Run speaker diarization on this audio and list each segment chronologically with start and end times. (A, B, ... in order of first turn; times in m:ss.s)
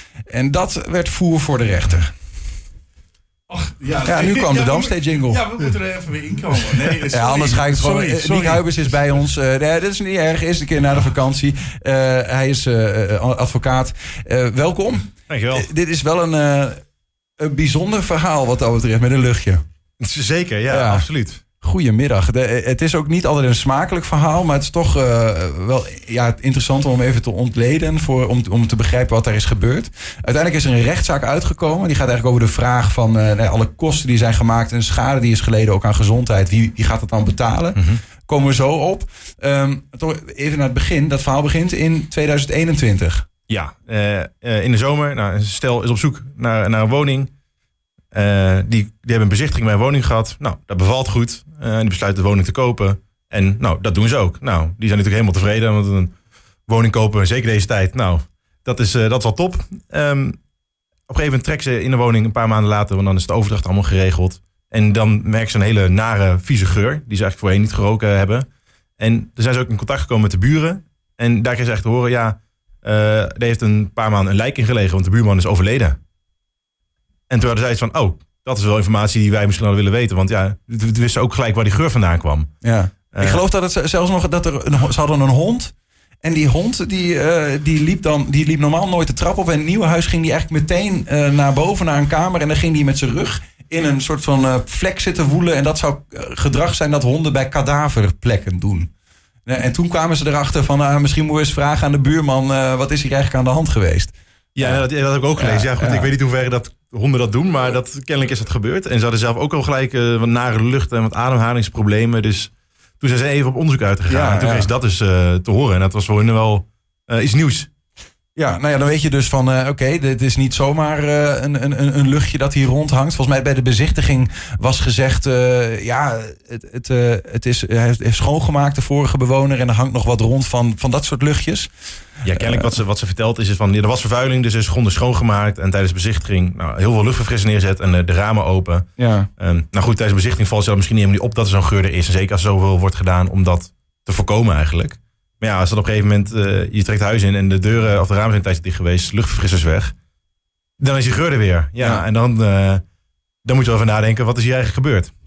0:00.3-0:02.1 A
0:03.5-0:08.8 B
0:04.0-0:05.4 A
0:07.1-0:16.8 A
0:15.3-0:15.7 C
0:17.4-0:19.6 A
0:20.0-0:21.4 C
0:20.7-0:21.0 A
0:21.6-0:43.2 A
0:43.5-0:47.3 C
0:48.1-0:56.1 C
0:56.7-1:00.4 C
1:01.1-1:08.4 C
1:09.0-1:16.0 C
1:17.3-1:22.5 C
1:22.6-1:38.9 A
1:23.1-1:23.4 C
1:39.4-1:44.8 A
1:44.5-1:57.7 C
1:45.4-1:46.1 A
1:54.1-1:54.7 A
1:58.4-2:11.7 A
2:12.2-2:29.9 C
2:12.3-2:12.7 A
2:19.0-2:19.3 A
2:30.8-2:32.8 C
2:31.8-2:32.0 A
2:33.4-2:35.1 C